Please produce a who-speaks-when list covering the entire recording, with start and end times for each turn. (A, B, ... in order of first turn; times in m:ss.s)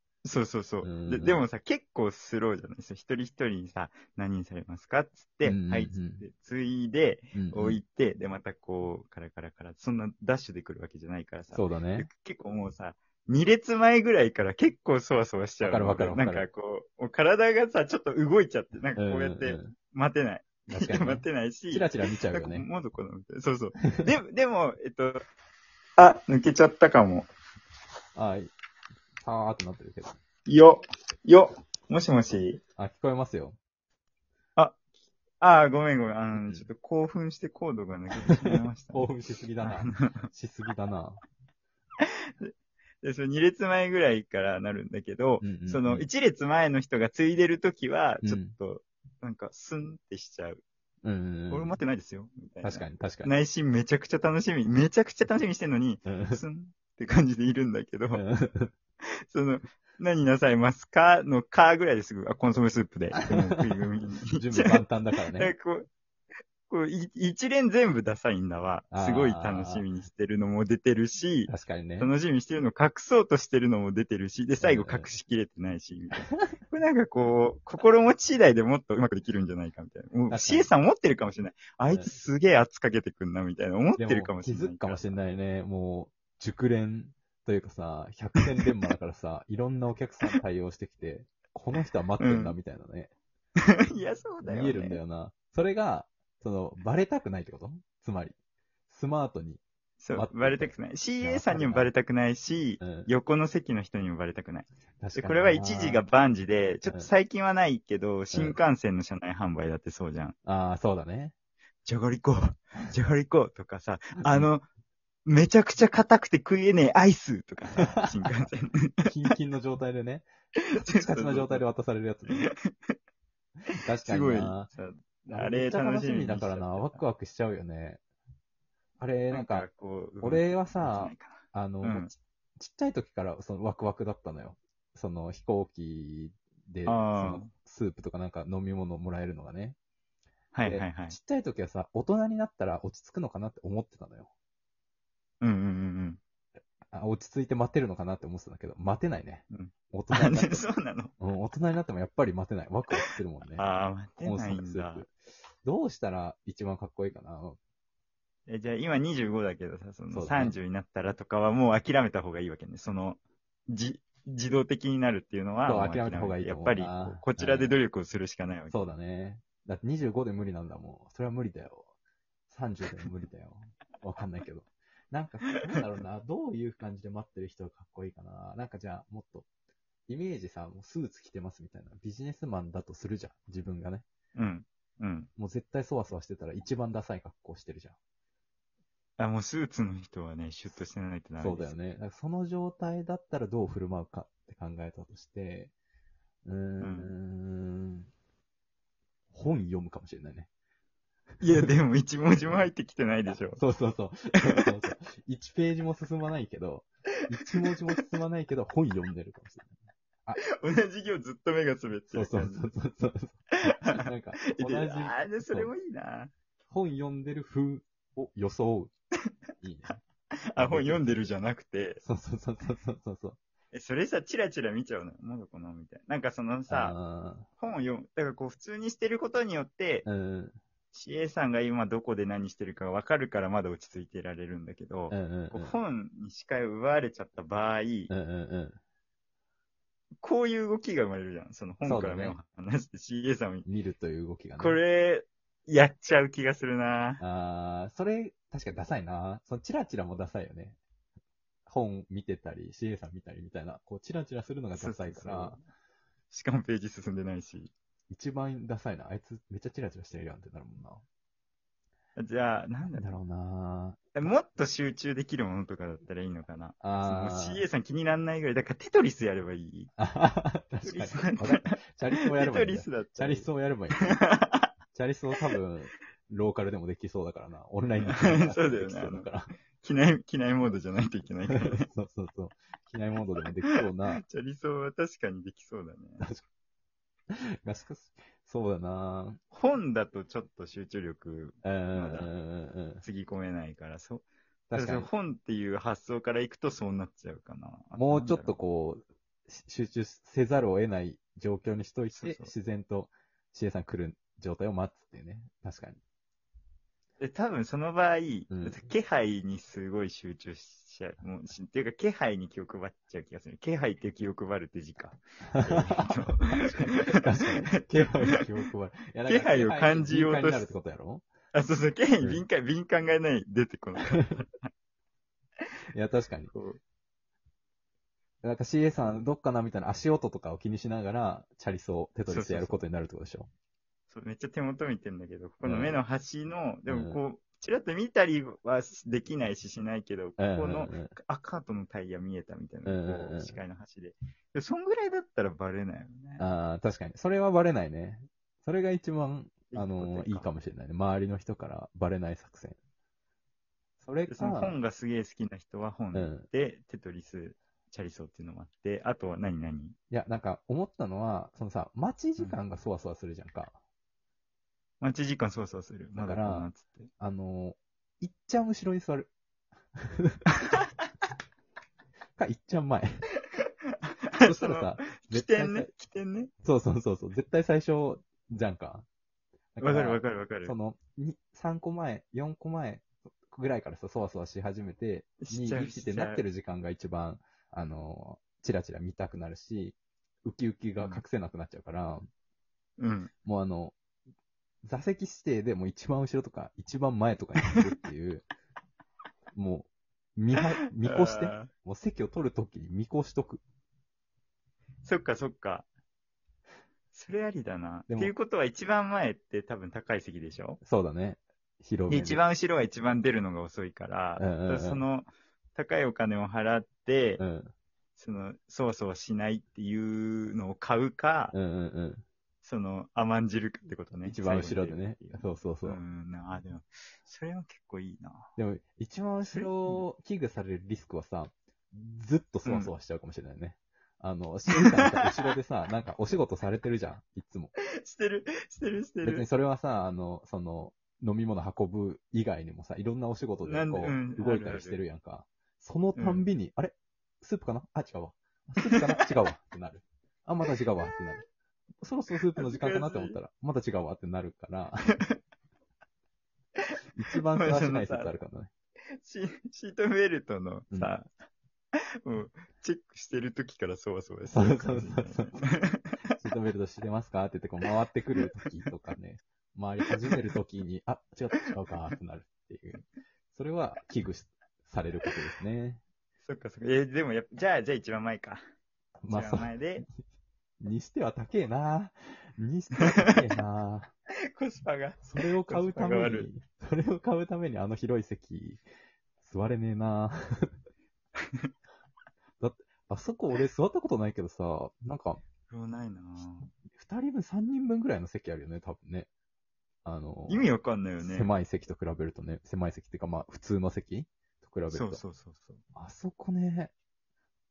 0:00.2-0:25.2 A
0:00.8-0:01.4 B
0:05.4-0:06.2 B
0:07.3-0:07.8 B
0:11.5-0:12.1 B
0:15.6-0:16.5 B
0:19.0-0:19.7 B
0:20.7-0:22.7 B
0:23.8-0:24.1 B
0:26.0-0:27.3 A
0:28.2-0:28.5 B
0:29.2-0:30.2 B
0:30.4-0:32.6 A
0:32.8-0:33.6 B
0:35.4-0:39.1 A
0:36.3-0:36.7 B
0:38.4-0:41.2 B
0:39.6-0:40.3 A
0:42.0-0:50.6 A
0:45.4-0:46.1 B
0:48.2-0:48.5 B
0:51.0-0:51.8 B
0:51.5-0:58.2 A
0:52.6-0:53.3 B
0:56.0-0:56.4 B
0:58.1-0:58.7 B
0:59.0-1:04.8 A
1:04.3-1:05.5 B
1:05.3-1:05.9 A
1:06.7-1:25.2 A
1:08.9-1:09.8 B
1:11.5-1:12.1 B
1:14.6-1:15.1 B
1:20.3-1:20.7 B
1:24.0-1:33.1 B
1:32.2-1:32.6 A
1:33.6-1:35.0 A
1:34.4-1:38.4 B
1:38.9-1:41.9 B
1:40.0-1:50.4 A
1:42.8-1:43.1 B
1:45.0-1:46.0 B
1:48.3-1:48.6 B
1:50.4-1:51.3 B
1:51.8-1:54.6 A
1:54.2-1:54.5 B
1:55.2-1:59.1 A
1:57.8-1:58.1 B
1:59.0-2:02.5 B
2:00.8-2:01.6 A
2:02.4-2:02.9 A
2:03.8-2:04.7 B
2:04.0-2:07.0 A
2:05.3-2:08.0 B
2:09.0-2:09.7 B
2:09.3-2:12.1 A
2:10.2-2:19.8 B
2:16.8-2:17.5 A
2:20.5-2:21.2 A
2:20.6-2:24.3 B
2:25.4-2:26.2 A
2:26.9-2:30.6 B
2:29.5-2:31.1 A
2:31.2-2:33.6 B
2:33.6-2:35.0 A
2:34.2-2:37.6 B
2:38.5-2:48.9 A
2:40.1-2:40.6 B
2:45.6-2:47.8 B
2:48.7-2:51.9 B
2:52.5-2:59.5 B
3:00.1-3:04.0 B
3:04.3-3:05.3 A
3:05.4-3:08.0 B
3:09.2-3:11.7 A
3:11.4-3:15.7 B
3:16.4-3:18.1 B
3:16.8-3:17.1 A
3:19.3-3:20.5 B
3:21.4-3:23.6 A
3:23.6-3:29.7 B
3:30.4-3:32.7 A
3:32.1-3:35.7 B
3:33.6-3:36.3 A
3:36.7-3:38.9 B
3:39.6-3:40.0 B
3:40.5-3:42.0 A
3:40.6-3:41.2 B
3:42.0-3:43.4 B
3:43.7-3:47.0 A
3:46.7-3:47.5 B
3:47.6-3:50.0 A
3:50.0-3:50.6 B
3:50.9-3:58.1 A
3:55.1-3:55.8 B
3:58.1-3:58.8 B
4:00.2-4:03.6 A
4:01.8-4:02.4 B
4:03.6-4:04.8 B
4:04.6-4:07.2 A
4:07.2-4:10.8 B
4:11.6-4:15.6 B
4:14.7-4:15.6 A
4:16.3-4:17.7 A
4:18.1-4:21.0 B
4:22.2-4:23.1 A
4:22.9-4:24.2 B
4:24.1-4:29.9 A
4:26.8-4:27.6 B
4:30.0-4:34.2 B
4:30.8-4:34.7 A
4:34.9-4:39.5 B
4:38.1-4:41.9 A
4:41.5-4:44.2 B
4:44.2-4:46.2 A
4:47.3-4:49.4 B
4:49.5-4:52.3 A
4:51.6-4:53.0 B
4:53.0-4:58.6 A
4:54.7-4:55.1 B
4:58.0-5:06.0 B
5:02.1-5:02.5 A
5:07.2-5:17.2 A
5:08.5-5:08.9 B
5:15.5-5:21.2 B
5:19.2-5:20.7 A
5:21.5-5:24.7 A
5:25.9-5:26.5 B
5:26.5-5:26.8 A
5:28.4-5:33.5 B
5:32.3-5:32.8 A
5:34.1-5:46.4 A
5:35.6-5:36.0 B
5:36.9-5:37.2 B
5:40.4-5:41.2 B
5:42.8-5:43.6 B
5:46.4-5:52.8 B
5:49.7-5:50.5 A
5:54.0-5:54.8 B
5:54.3-6:00.0 A
5:56.1-5:56.5 B
6:00.1-6:03.8 B
6:05.0-6:07.1 A
6:06.1-6:09.3 B
6:10.0-6:10.4 B
6:12.4-6:13.2 B
6:14.4-6:16.5 A
6:14.4-6:15.9 B
6:16.6-6:19.0 B
6:19.7-6:32.3 B
6:19.8-6:20.7 A
6:25.4-6:26.4 A
6:33.0-6:33.3 A
6:33.4-6:34.0 B
6:34.8-6:38.4 B
6:39.5-6:43.6 B
6:41.0-6:41.7 A
6:45.0-6:45.9 A
6:47.1-6:50.8 A
6:48.1-6:48.3 B
6:50.8-6:52.4 B
6:52.1-6:57.4 A
6:54.4-6:55.0 B
6:57.4-6:57.7 B
6:58.2-7:01.5 A
7:01.5-7:02.2 B
7:02.6-7:08.5 A
7:04.2-7:06.0 B
7:08.6-7:17.7 B
7:09.4-7:10.0 A
7:12.6-7:12.9 A
7:17.9-7:19.4 A
7:19.2-7:31.5 B
7:23.6-7:25.0 A
7:26.2-7:26.4 A
7:32.0-7:35.2 B
7:32.6-7:33.4 A
7:37.1-7:38.7 B
7:37.6-7:38.4 A
7:39.2-7:41.3 A
7:42.2-7:46.1 A
7:44.5-7:45.6 B
7:46.4-7:56.0 B
7:56.4-7:58.6 A
7:59.2-7:59.8 B
7:59.3-8:00.0 A
8:00.8-8:04.1 B
8:04.5-8:06.5 A
8:05.2-8:08.8 B
8:09.4-8:10.7 B
8:12.6-8:15.4 B
8:15.6-8:16.7 A
8:16.9-8:19.3 B
8:20.0-8:25.2 B
8:20.5-8:21.5 A
8:24.9-8:25.8 A
8:25.9-8:26.9 B